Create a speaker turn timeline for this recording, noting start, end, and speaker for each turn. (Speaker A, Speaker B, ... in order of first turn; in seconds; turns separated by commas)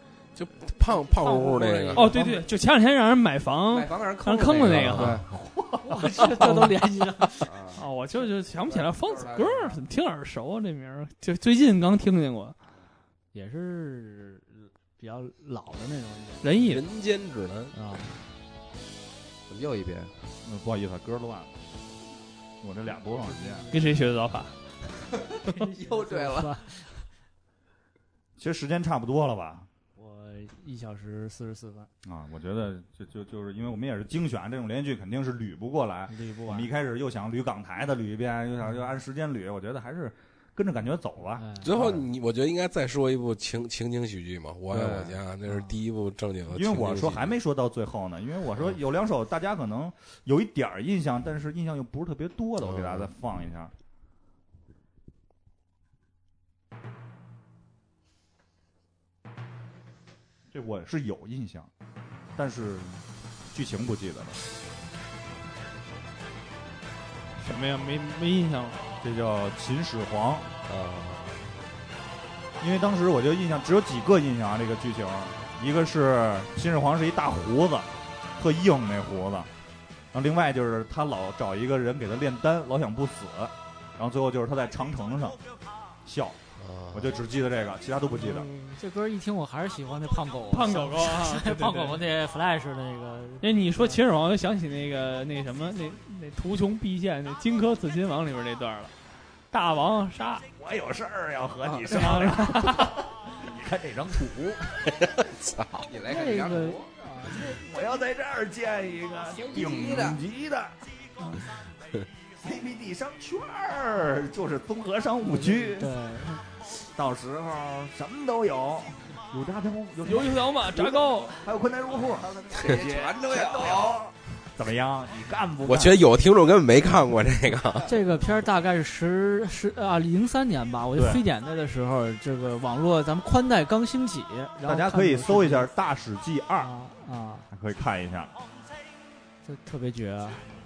Speaker A: 0.4-2.1, Speaker B: 1.2-2.1, Speaker C: 1.9-5.2, Speaker B: 3.7-5.3, Speaker A: 4.7-5.2, Speaker D: 4.9-6.0, Speaker E: 5.8-7.5, Speaker B: 7.4-9.8, Speaker C: 7.8-12.6, Speaker E: 13.3-16.5, Speaker C: 16.4-16.8, Speaker A: 16.6-17.8, Speaker E: 17.7-18.2, Speaker B: 19.5-20.1, Speaker D: 20.4-21.5, Speaker D: 22.6-23.6, Speaker E: 23.3-23.8, Speaker C: 23.7-24.6, Speaker B: 25.3-26.7, Speaker E: 25.5-27.0, Speaker D: 28.4-29.7, Speaker E: 30.0-31.9, Speaker D: 32.0-42.0, Speaker E: 36.1-36.7, Speaker E: 41.4-41.7, Speaker A: 41.6-47.3, Speaker B: 44.7-45.2, Speaker D: 46.5-53.7, Speaker A: 52.6-53.1, Speaker D: 60.5-61.7, Speaker D: 62.4-63.0, Speaker D: 63.5-64.4, Speaker C: 67.4-68.9, Speaker D: 69.0-70.5, Speaker A: 70.7-71.5, Speaker D: 72.6-79.5, Speaker D: 80.1-85.4, Speaker D: 86.0-86.4, Speaker A: 86.6-87.2, Speaker D: 86.9-88.5, Speaker E: 88.2-94.0, Speaker C: 90.5-92.0, Speaker C: 93.4-98.9, Speaker C: 99.5-100.5, Speaker D: 100.6-104.7, Speaker B: 101.7-101.9, Speaker C: 101.9-103.0, Speaker A: 105.1-105.8, Speaker B: 105.9-106.9, Speaker E: 106.0-107.6, Speaker D: 107.4-110.8, Speaker B: 109.3-110.2, Speaker D: 112.4-115.9, Speaker E: 115.2-116.4, Speaker D: 116.7-126.0, Speaker C: 120.0-121.4, Speaker B: 122.5-124.0, Speaker A: 125.7-127.9, Speaker E: 127.8-135.7, Speaker D: 130.9-131.2, Speaker D: 134.7-136.7, Speaker E: 136.6-137.5, Speaker D: 137.5-138.3, Speaker E: 139.4-140.5